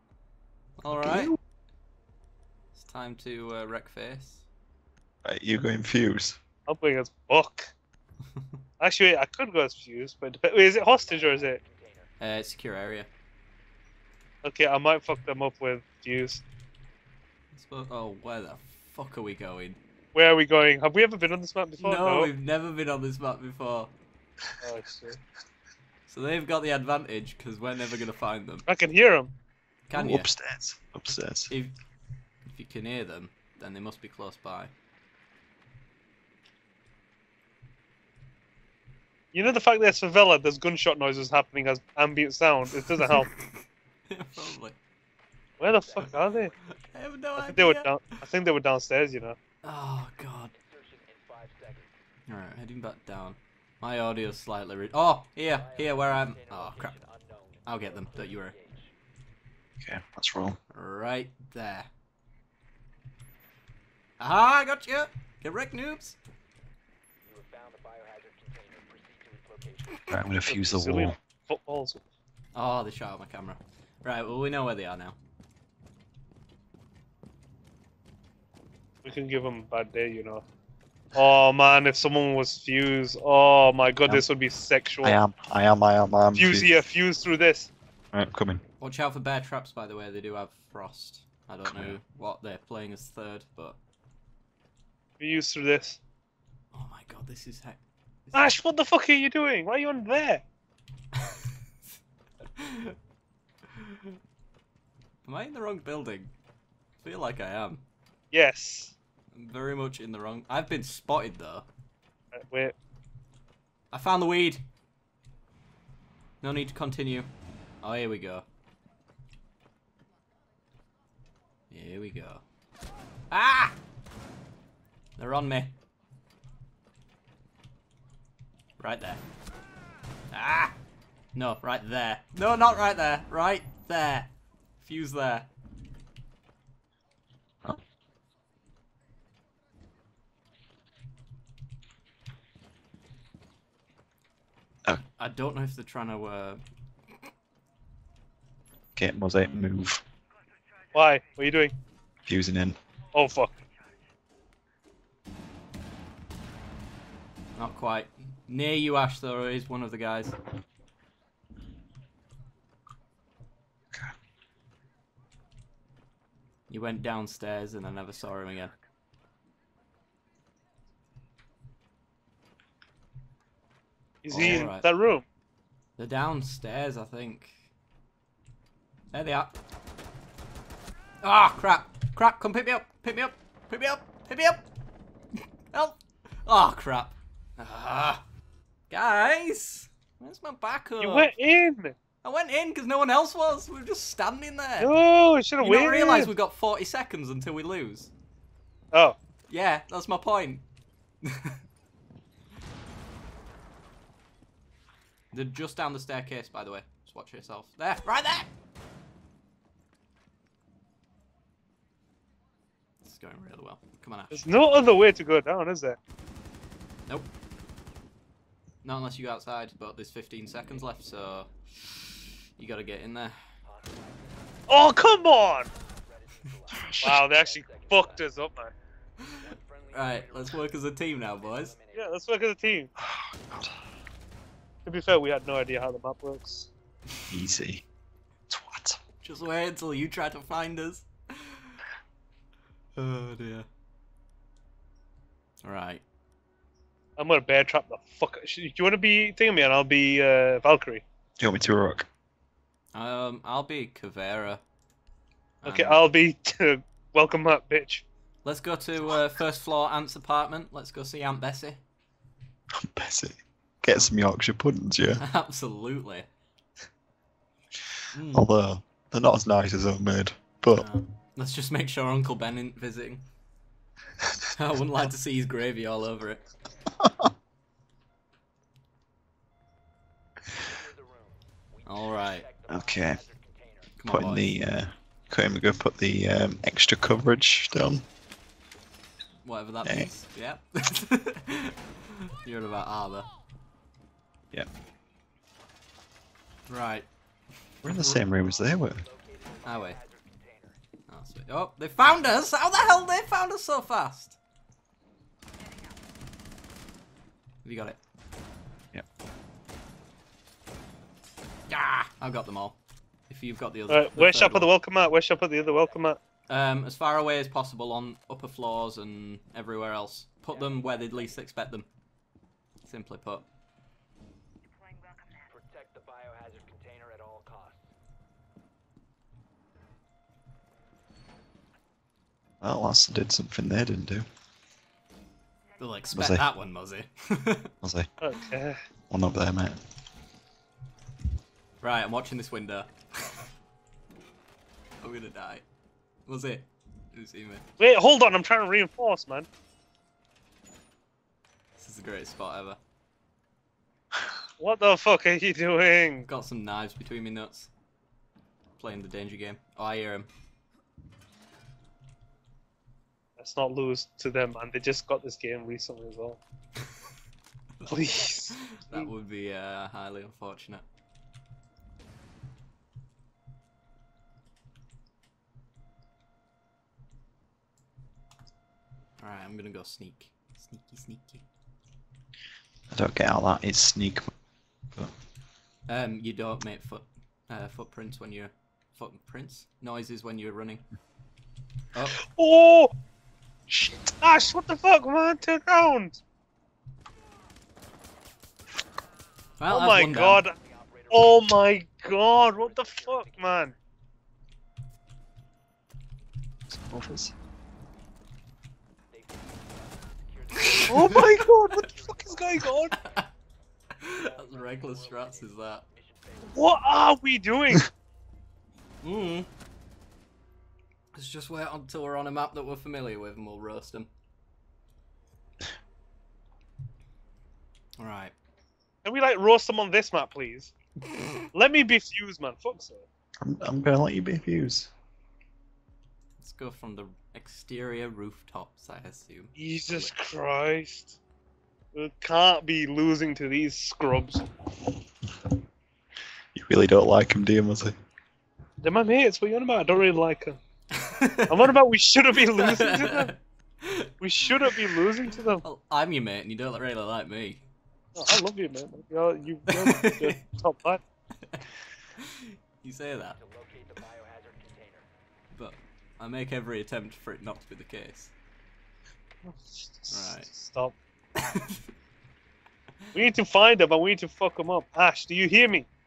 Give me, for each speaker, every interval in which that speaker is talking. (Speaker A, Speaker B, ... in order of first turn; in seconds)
Speaker A: 0.8-1.4, 2.7-4.4, 12.2-13.1, 17.5-19.8, 21.8-23.9, 26.1-28.6, 29.9-30.3, 31.5-31.7, 32.4-34.7, 43.0-44.8, 46.6-47.9, 49.6-50.5, 52.3-56.9, 57.6-58.5, 60.7-61.9, 64.2-66.2, 72.5-75.2, 88.8-93.8, 96.7-98.5, 101.1-101.4, 102.5-103.0, 103.7-104.2, 105.2-106.3, 107.0-107.8, 109.3-111.7, 113.9-114.6, 116.4-117.3, 117.8-118.4, 121.7-122.4, 123.3-123.8, 125.2-125.7, 128.8-129.2, 130.3-130.8, 131.3-135.5, 145.2-146.6, 157.6-160.3, 166.7-168.7, 174.3-174.9, 176.0-177.6, 179.1-179.5, 181.2-184.7, 185.7-188.2, 188.9-191.3, 192.2-194.9, 195.6-198.1, 199.5-200.6, 201.2-201.6, 205.3-208.5, 213.0-214.5, 218.8-223.3, 229.2-231.7, 239.2-241.8, 243.0-243.7, 245.6-246.0, 252.9-254.6, 255.6-256.0, 258.4-261.8, 265.2-266.3, 268.1-268.5, 270.7-273.2, 274.6-276.4, 281.9-282.4, 284.0-284.5, 289.4-293.3, 296.7-297.1, 297.8-298.2, 299.6-300.0, 301.1-304.4, 307.6-308.0, 311.7-312.8, 313.3-314.7, 316.5-321.9, 322.8-323.4, 335.8-337.7, 341.8-343.5, 345.0-345.6, 346.3-347.6, 351.8-352.8, 356.2-357.7, 358.8-360.3, 367.8-370.8, 379.2-381.4, 385.9-390.8, 391.9-392.2, 399.6-400.4, 410.6-411.2, 412.9-413.3, 414.0-415.8, 419.0-419.5, 421.1-424.1, 428.0-428.3, 431.0-431.5, 436.4-440.1, 450.9-451.7, 452.5-455.0, 455.6-457.7, 459.7-460.4, 462.2-463.4, 465.5-468.3, 470.1-470.5, 471.4-471.8
Speaker B: 1.0-1.3, 5.2-6.4, 29.9-31.5, 59.8-60.6, 70.1-71.1, 85.0-86.7, 88.1-88.6, 91.6-91.9, 148.9-150.0, 152.3-152.8, 226.7-227.2, 233.0-233.7, 237.3-237.8, 238.5-239.0, 251.4-252.1, 262.7-265.2, 268.3-270.9, 277.0-277.3, 282.7-283.2, 284.1-288.0, 289.8-290.1, 297.8-299.0, 332.6-334.2, 336.1-336.4, 337.8-338.1, 339.1-339.8, 382.9-384.3, 393.7-394.1, 406.7-407.3, 433.4-434.9, 446.5-447.9
Speaker C: 6.7-7.7, 8.8-11.6, 14.4-16.4, 20.1-22.3, 24.6-25.2, 28.6-29.3, 39.3-43.3, 45.6-46.5, 47.4-49.4, 70.5-72.0, 79.0-80.4, 81.1-85.2, 86.3-87.7, 95.2-96.0, 98.3-100.4, 108.3-108.9, 112.3-112.7, 150.9-151.8, 153.1-153.5, 174.2-175.2, 191.0-191.9, 194.8-196.3, 198.9-199.2, 214.3-216.0, 224.7-225.7, 227.0-228.7, 231.9-232.9, 234.8-236.7, 247.2-251.0, 255.6-258.0, 313.9-316.2, 338.2-338.8, 347.8-349.5, 354.6-356.3, 363.4-366.4, 367.9-369.1, 392.2-392.9, 394.2-396.2, 399.7-400.5, 401.1-403.7, 410.9-412.9, 416.4-417.9, 429.0-430.7, 431.5-433.0, 439.6-441.2, 441.9-444.4, 448.8-450.6, 451.5-453.3, 454.2-455.6, 458.1-461.0, 469.4-470.9, 473.1-475.9
Speaker D: 11.0-12.1, 45.6-47.0, 50.5-51.9, 55.5-58.9, 67.2-70.2, 223.6-228.3, 229.3-232.1, 280.6-283.9, 298.1-300.8, 315.4-316.2, 320.5-321.5, 325.4-327.9, 400.4-403.8, 409.1-413.2, 414.0-417.1, 463.4-465.1